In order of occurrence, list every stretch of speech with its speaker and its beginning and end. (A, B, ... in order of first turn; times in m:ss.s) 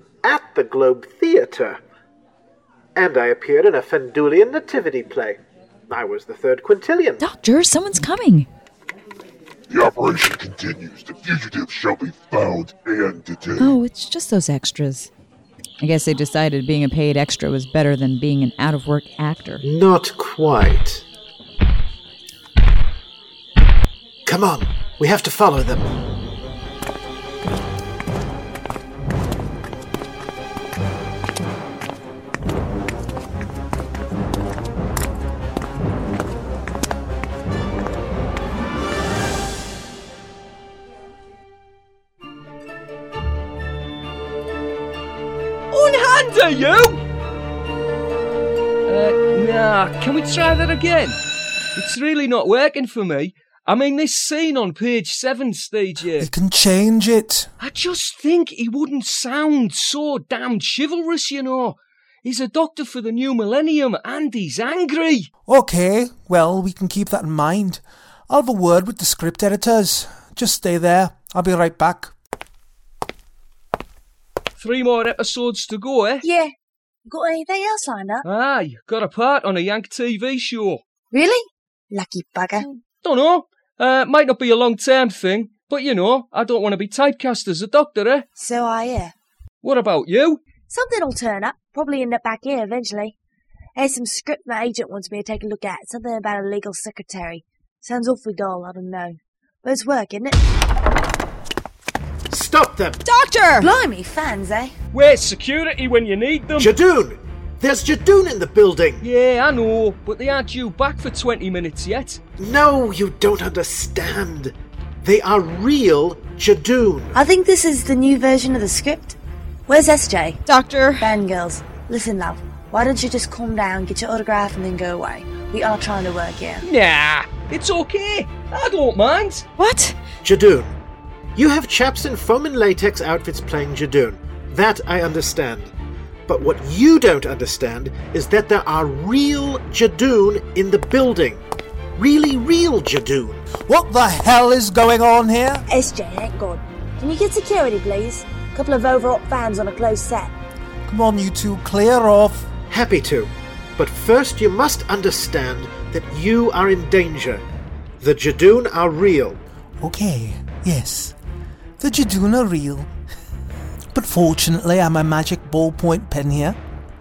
0:00.2-0:01.8 A
0:03.0-0:07.2 A
0:07.2-0:08.5 B
0:09.7-0:13.8 C
0:13.6-0:15.1 B
0:15.8-0:19.6 B
0:19.6-0:21.0 A
0:24.2-0:25.9 A
0:45.7-0:47.0 D
0:48.9-0:51.2 D
0:51.8-0:56.3 D
0:56.2-0:57.5 E
0:57.6-1:05.3 D
1:05.5-1:12.1 E
1:14.6-1:16.2 D
1:16.2-1:16.5 F
1:17.1-1:18.2 F
1:18.2-1:20.8 D
1:21.1-1:22.7 F
1:22.6-1:28.2 D
1:28.3-1:29.1 F
1:29.6-1:30.4 D
1:30.7-1:33.1 F
1:33.8-1:40.4 F
1:42.3-1:43.0 A
1:43.0-1:43.7 B
1:43.6-1:44.7 F
1:44.9-1:46.7 D
1:46.6-1:49.0 A
1:49.0-1:52.2 D
1:52.4-1:57.2 A
1:57.1-2:00.4 F
2:00.5-2:01.1 B
2:01.0-2:06.6 F
2:06.6-2:09.4 D
2:09.6-2:10.0 B
2:10.2-2:10.7 A
2:11.4-2:15.7 A
2:16.3-2:21.4 A
2:22.0-2:23.4 A
2:23.6-2:25.6 E
2:25.7-2:30.3 F
2:30.9-2:32.5 E
2:32.7-2:37.4 A
2:38.0-2:39.4 A
2:39.8-2:41.2 E
2:41.8-2:42.9 E
2:43.9-2:46.6 E